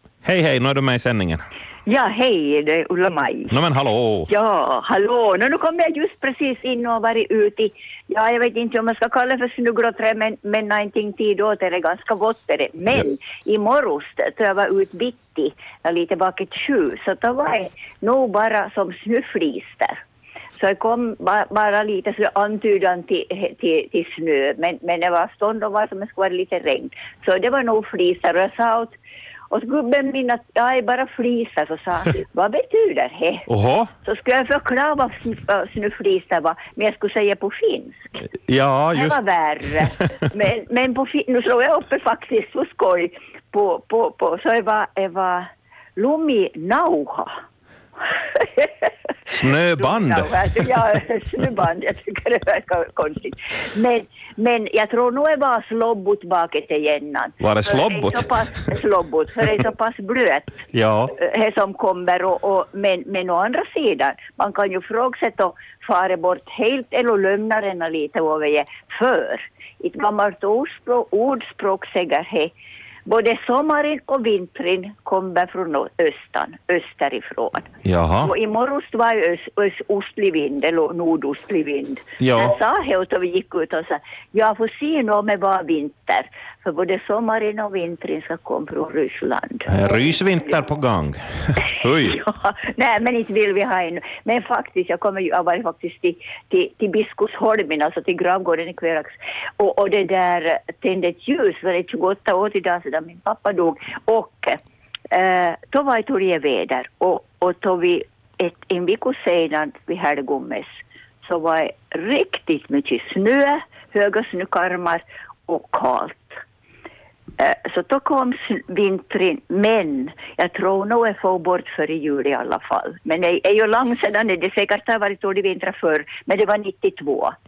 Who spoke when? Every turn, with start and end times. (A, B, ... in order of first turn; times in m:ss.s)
0:00.2-0:01.4 A
0:01.9-0:03.6 B
0:03.5-0:04.3 A
0:04.3-0:20.0 B
0:20.6-0:29.0 B
0:29.5-0:33.4 B
0:33.5-0:33.9 A
0:34.0-0:38.1 B
0:38.5-0:39.2 A
0:38.9-0:47.3 B
0:48.4-0:48.9 B
0:49.3-0:50.8 A
0:49.8-1:00.6 B
0:57.4-0:58.3 A
1:00.7-1:01.1 A
1:01.1-1:12.5 B
1:13.1-1:17.7 B
1:17.8-1:18.3 A
1:18.2-1:29.8 B
1:22.2-1:22.6 A
1:29.7-1:32.2 A
1:32.0-1:44.6 B
1:45.1-1:56.4 B
1:57.4-2:07.4 B